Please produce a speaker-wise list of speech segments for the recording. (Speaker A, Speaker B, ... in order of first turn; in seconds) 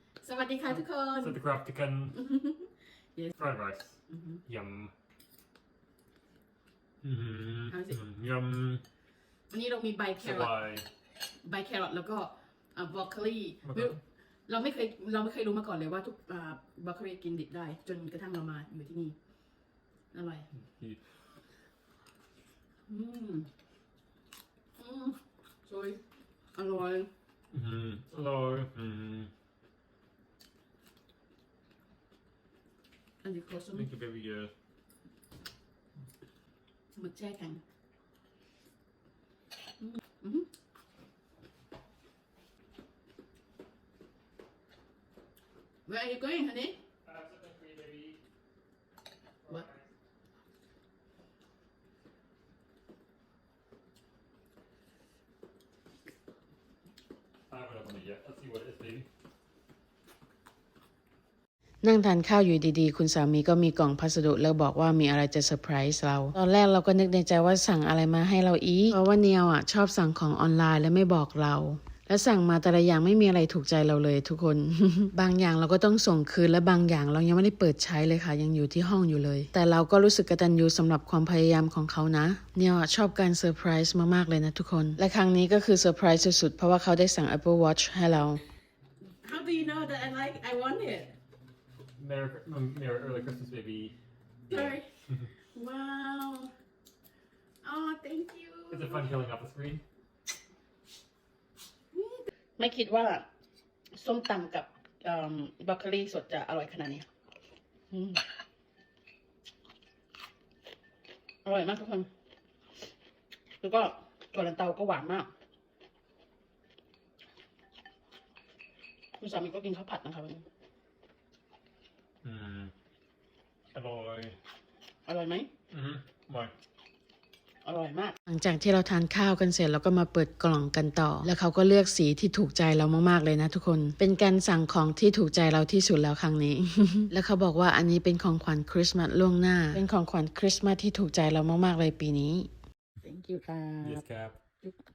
Speaker A: 0.2-1.4, 2.1-3.3, 4.1-4.4, 7.7-7.9, 9.5-10.6, 11.4-19.1, 20.1-20.5, 22.9-23.5, 24.8-26.0, 26.5-27.1, 33.2-33.9, 37.0-37.6, 39.8-40.5, 45.9-46.8, 89.2-91.2, 94.5-94.8, 95.5-96.5, 97.6-99.1, 101.9-103.2, 103.9-107.0, 107.9-108.2, 111.4-112.1, 113.6-115.3, 119.2-120.4, 125.0-125.5, 127.6-128.1, 143.0-144.0
Speaker B: 0.7-2.1, 3.3-4.0, 4.5-4.9, 7.0-8.8, 10.2-10.9, 13.6-14.0, 20.5-21.0, 27.5-29.3, 33.7-34.5, 47.0-48.2, 49.4-49.9, 57.5-59.1, 92.0-93.9, 94.5-95.3, 98.7-99.8, 122.2-122.7, 123.7-124.3, 125.7-126.5, 143.8-144.4
Speaker C: 61.8-88.4, 128.3-142.5